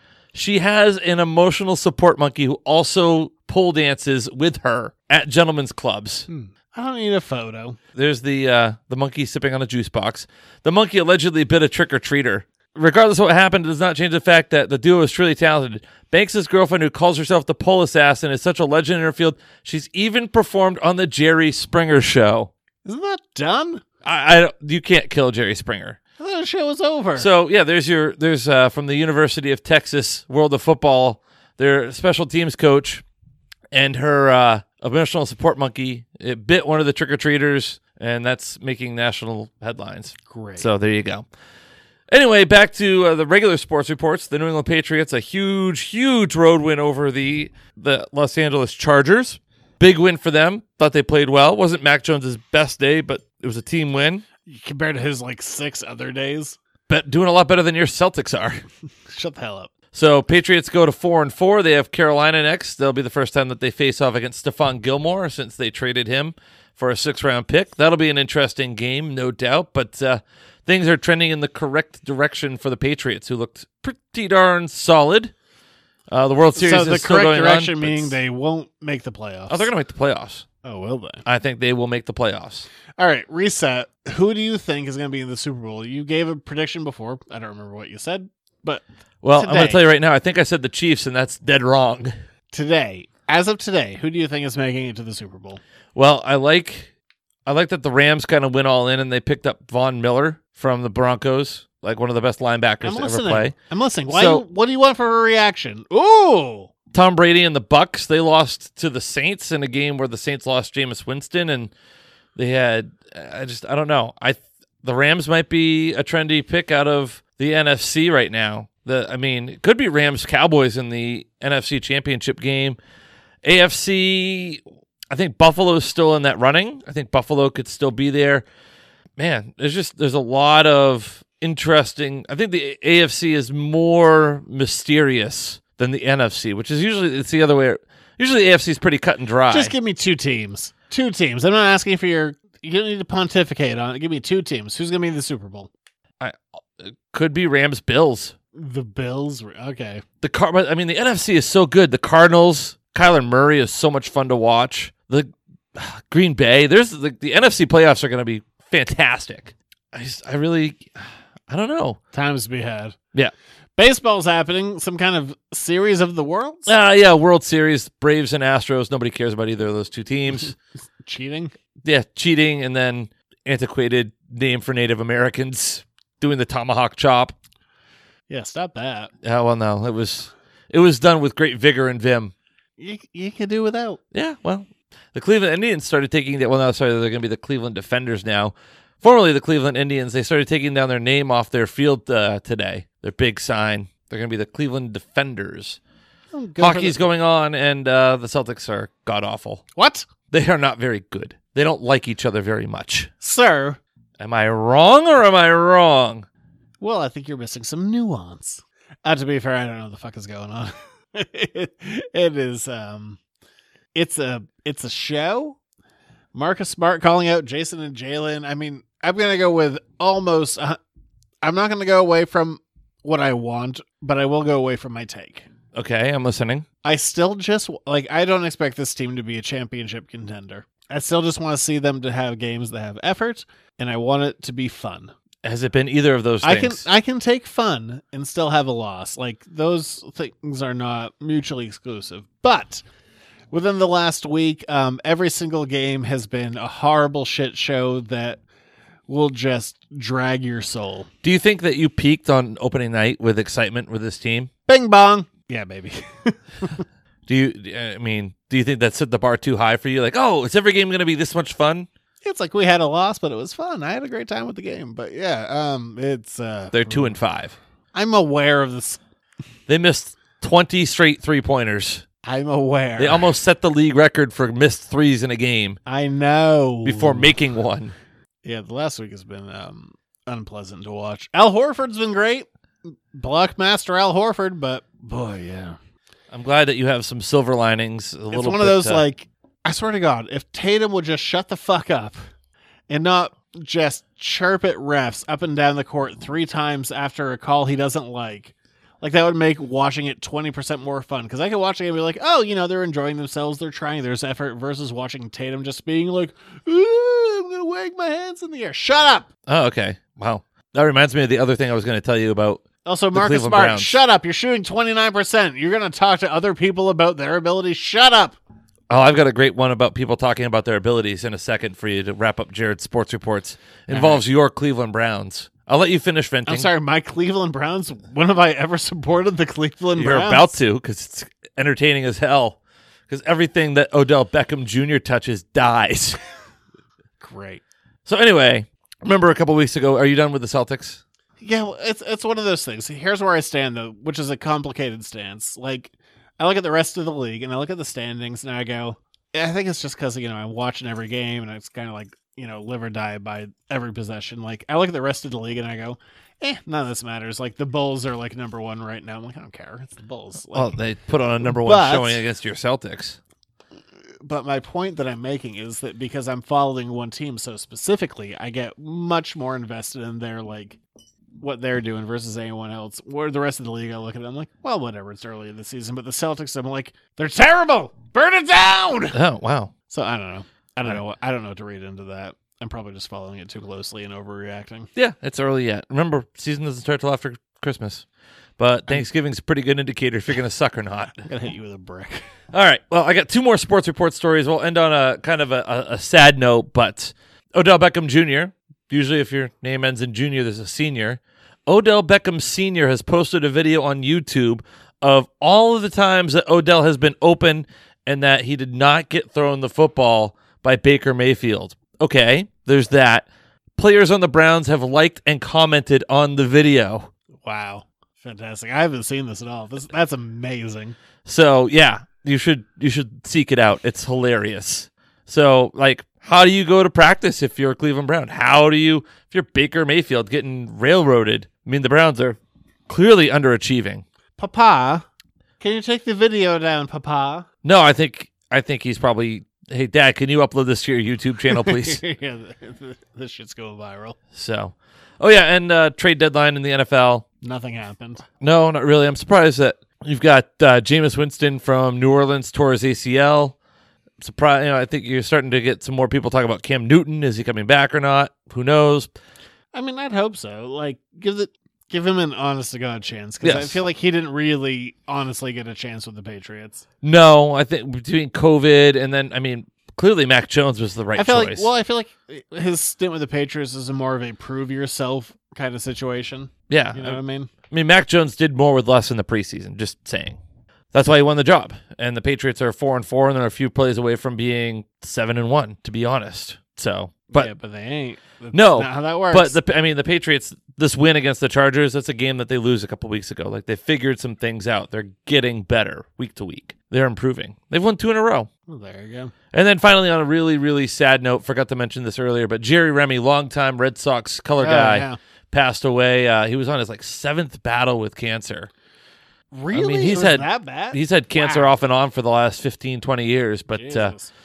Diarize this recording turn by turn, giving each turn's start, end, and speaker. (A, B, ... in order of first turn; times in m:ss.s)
0:00.3-0:06.3 A
0:06.3-0:07.8 B
0:08.0-0:22.5 A
0:22.8-0:23.8 B
0:24.0-0:26.0 A
0:26.2-0:27.3 B
0:27.2-0:33.0 A
0:33.7-0:41.3 A
0:40.3-0:40.7 B
0:42.1-0:54.2 A
0:54.5-0:56.6 B
0:56.9-0:58.6 A
0:59.1-0:59.7 B
0:59.9-1:15.3 A
1:16.1-1:18.2 A
1:16.6-1:19.7 B
1:19.5-1:20.5 A
1:20.6-1:21.2 B
1:21.2-1:22.7 A
1:23.0-1:28.8 B
1:29.2-1:32.1 A
1:29.4-1:29.8 B
1:32.5-1:35.6 B
1:36.0-1:36.9 A
1:37.5-1:43.6 A
1:42.8-1:46.7 B
1:44.1-1:44.4 A
1:46.9-1:51.7 A
1:52.4-2:02.8 A
2:03.4-2:08.5 A
2:09.2-2:19.7 A
2:19.5-2:25.7 B
2:26.2-2:28.4 A
2:28.6-2:30.0 B
2:30.2-2:42.0 A
2:42.1-2:43.0 B
2:43.8-2:46.7 B
2:46.7-2:50.5 A
2:51.0-2:51.5 B
2:51.8-2:57.4 A
2:58.3-2:59.1 B
2:59.2-3:02.3 A
3:02.8-3:04.0 B
3:04.1-3:15.8 A
3:16.3-3:17.0 B
3:16.6-3:19.6 A
3:19.8-3:20.1 B
3:20.3-3:23.1 A
3:23.2-3:23.8 B
3:24.2-3:26.3 A
3:26.8-3:33.2 B
3:34.0-3:35.6 B
3:36.3-3:40.8 B
3:41.4-3:45.5 B
3:45.7-3:46.7 A
3:46.8-3:55.1 B
3:55.4-3:56.9 A
3:56.4-4:02.8 B
4:03.5-4:08.4 B
4:09.1-4:11.1 B
4:11.2-4:14.5 A
4:14.7-4:16.8 B
4:17.3-4:21.9 A
4:22.2-4:27.2 B
4:26.7-4:27.6 A
4:27.9-4:29.0 B
4:29.7-4:32.0 A
4:32.2-4:33.3 B
4:33.0-4:35.8 A
4:35.9-4:37.3 B
4:36.8-4:38.0 A
4:38.4-4:45.8 B
4:46.3-4:49.0 A
4:48.3-4:52.2 B
4:52.9-5:09.3 B
5:09.5-5:14.0 A
5:12.8-5:18.4 B
5:18.9-5:26.7 A
5:23.9-5:24.2 B
5:26.5-5:30.6 B
5:30.0-5:32.6 A
5:33.1-5:36.2 A
5:37.2-5:37.6 B
5:38.1-5:41.0 A
5:41.4-6:00.8 B
6:00.5-6:03.2 A
6:01.4-6:02.2 B
6:04.2-6:10.8 B
6:11.4-6:19.2 B
6:19.1-6:19.7 A
6:19.9-6:24.9 B
6:25.0-6:28.1 A
6:28.6-6:31.3 A
6:31.2-6:32.2 B
6:32.5-6:57.1 A
6:57.4-7:01.0 B
7:01.2-7:14.0 A
7:14.4-7:15.0 B
7:15.6-7:17.5 B
7:17.6-7:22.0 A
7:21.5-7:24.2 B
7:24.3-7:27.2 A
7:27.4-7:28.2 B
7:28.4-7:33.6 A
7:34.2-7:39.1 A
7:39.7-7:46.8 B
7:43.4-7:43.8 A
7:47.0-7:51.7 A
7:51.2-7:57.5 B
7:56.7-8:00.4 A
8:00.9-8:07.5 A
8:07.3-8:09.6 B
8:08.5-8:18.5 A
8:18.7-8:19.3 B
8:19.5-8:28.7 A
8:24.6-8:25.2 B
8:29.5-8:31.8 B
8:29.7-8:34.2 A
8:33.7-8:34.3 B